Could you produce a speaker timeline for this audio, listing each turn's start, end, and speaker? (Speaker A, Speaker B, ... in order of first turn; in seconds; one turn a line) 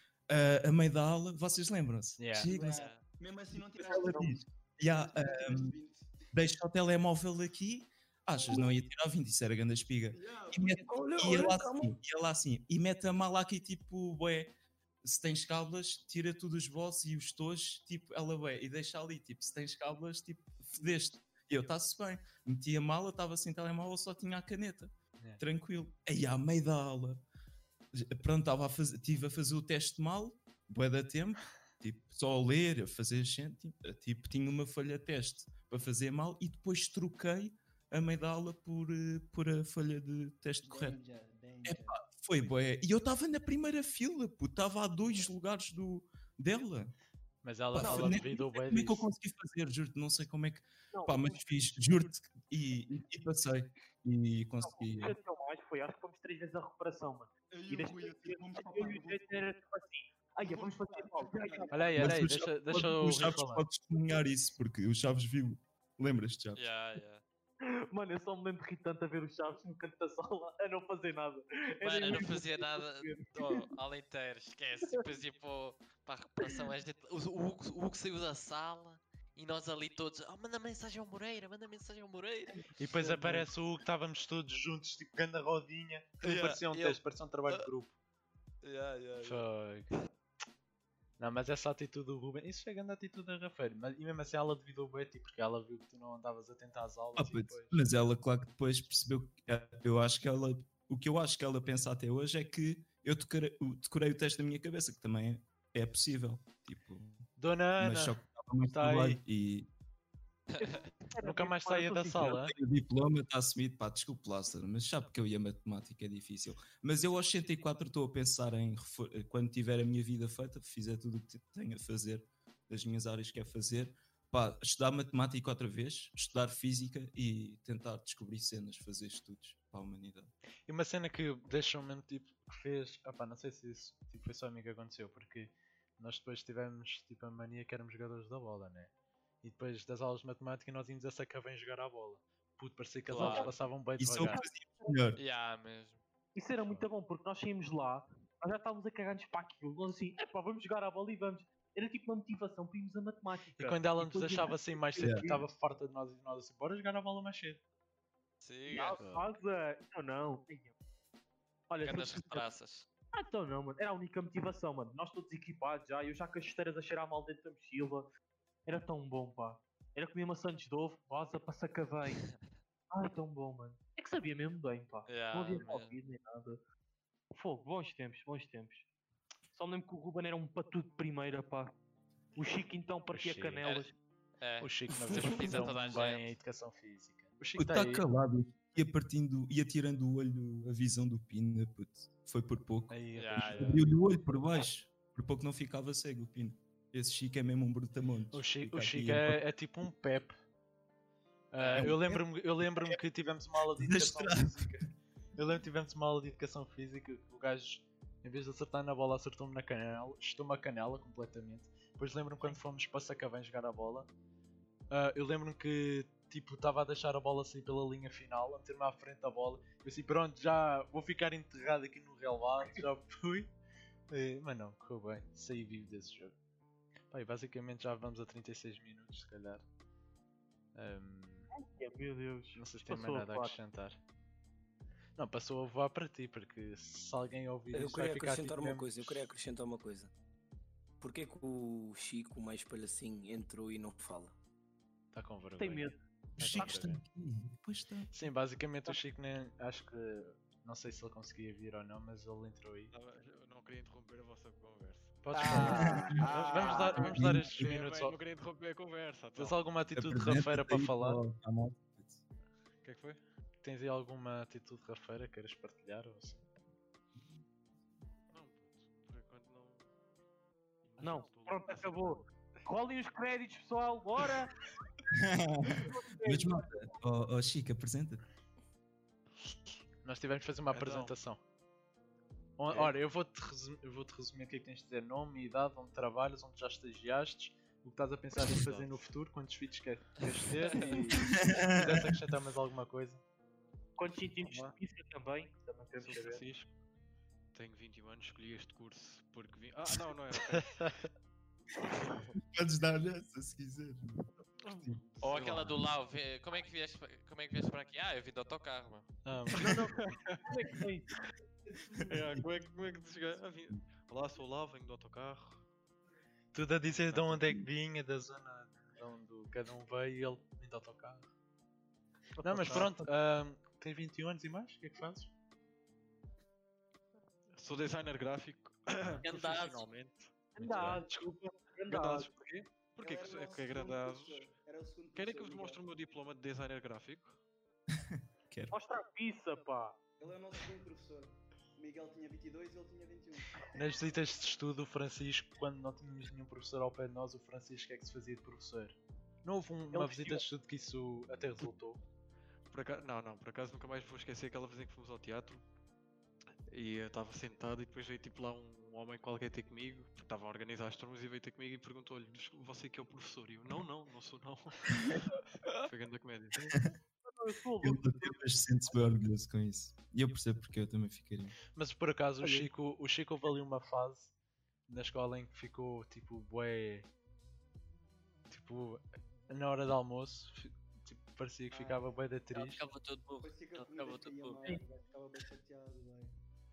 Speaker A: 0.3-2.9
Speaker B: 2.2-2.5
Speaker C: 2.5-6.3
Speaker D: 2.6-3.0
Speaker A: 3.5-5.7
Speaker A: 6.3-14.5
Speaker C: 8.4-8.7
Speaker C: 10.1-11.4
Speaker E: 10.8-11.9
Speaker A: 15.0-27.2
Speaker A: 27.9-41.0
Speaker C: 40.6-42.0
Speaker A: 41.6-46.9
Speaker B: 47.4-49.1
Speaker A: 47.7-55.1
Speaker F: 50.9-51.7
Speaker F: 54.6-62.2
Speaker C: 57.5-59.3
Speaker C: 60.4-61.9
Speaker B: 61.7-63.6
Speaker A: 62.0-66.6
Speaker D: 66.5-67.2
Speaker F: 67.7-73.7
Speaker D: 71.8-83.2
Speaker B: 82.8-88.0
Speaker D: 86.2-87.7
Speaker D: 88.6-90.0
Speaker B: 89.2-89.9
Speaker B: 91.2-97.8
Speaker A: 97.2-109.7
Speaker B: 107.4-109.2
Speaker D: 110.5-110.9
Speaker F: 110.6-112.5
Speaker B: 111.2-112.5
Speaker A: 112.2-130.3
Speaker B: 130.7-138.9
Speaker B: 139.4-144.4
Speaker D: 143.1-143.5
Speaker F: 143.2-143.5
Speaker A: 144.0-145.2
Speaker D: 145.2-146.0
Speaker F: 146.3-155.4
Speaker B: 153.6-157.6
Speaker A: 155.0-155.3
Speaker D: 158.4-159.0
Speaker F: 158.7-160.7
Speaker B: 158.9-159.2
Speaker F: 161.7-162.5
Speaker D: 161.8-162.9
Speaker F: 163.1-168.1
Speaker F: 168.7-172.2
Speaker F: 172.9-176.6
Speaker D: 175.1-175.9
Speaker F: 177.3-178.8
Speaker F: 179.5-181.7
Speaker F: 182.3-183.9
Speaker B: 183.1-183.6
Speaker D: 183.6-186.3
Speaker B: 184.6-188.0
Speaker E: 185.0-185.7
Speaker A: 187.6-199.4
Speaker B: 192.9-193.9
Speaker D: 193.1-193.8
Speaker B: 198.3-200.4
Speaker B: 201.5-214.1
Speaker D: 201.6-201.9
Speaker A: 201.8-202.3
Speaker A: 203.8-204.7
Speaker B: 214.9-223.5
Speaker B: 224.1-226.3
Speaker B: 227.1-229.6
Speaker B: 230.7-231.5
Speaker F: 231.5-233.6
Speaker B: 232.5-234.0
Speaker B: 235.2-239.3
Speaker E: 237.7-240.1
Speaker E: 241.0-244.3
Speaker B: 245.1-247.0
Speaker F: 245.6-246.0
Speaker A: 246.4-248.2
Speaker F: 246.5-246.8
Speaker B: 248.1-252.9
Speaker G: 252.9-259.6
Speaker B: 255.2-258.2
Speaker E: 255.3-257.1
Speaker A: 255.5-256.3
Speaker A: 257.0-257.7
Speaker B: 259.4-261.2
Speaker A: 259.9-262.2
Speaker G: 262.8-263.2
Speaker B: 263.6-266.4
Speaker G: 268.3-269.9
Speaker G: 270.8-272.1
Speaker F: 271.0-274.5
Speaker A: 275.1-278.2
Speaker F: 275.7-276.8
Speaker B: 280.0-281.4
Speaker G: 280.7-281.1
Speaker B: 282.6-293.2
Speaker G: 288.7-288.9
Speaker A: 291.2-292.1
Speaker F: 294.0-296.4
Speaker G: 296.0-296.7
Speaker G: 297.5-301.1
Speaker G: 302.0-302.3
Speaker A: 302.4-304.2
Speaker G: 304.6-305.8
Speaker D: 305.2-309.1
Speaker B: 309.2-309.7
Speaker G: 309.5-310.4
Speaker F: 309.6-311.1
Speaker G: 311.9-315.6
Speaker A: 312.1-312.4
Speaker B: 316.5-321.3
Speaker G: 317.1-317.6
Speaker F: 322.4-323.0
Speaker B: 322.4-325.3
Speaker G: 327.5-331.3
Speaker H: 329.2-329.9
Speaker F: 330.5-332.3
Speaker G: 331.9-334.5
Speaker C: 333.0-335.8
Speaker G: 335.1-337.4
Speaker A: 337.9-338.8
Speaker F: 338.7-340.0
Speaker C: 340.2-343.6
Speaker B: 343.7-352.0
Speaker F: 349.9-350.4
Speaker G: 352.7-355.6
Speaker G: 356.7-365.1
Speaker G: 365.8-366.8
Speaker F: 367.2-369.0
Speaker A: 367.8-371.6
Speaker B: 371.7-374.3
Speaker B: 374.9-377.1
Speaker B: 378.5-382.8
Speaker C: 381.7-382.0
Speaker H: 382.5-384.7
Speaker C: 383.4-386.4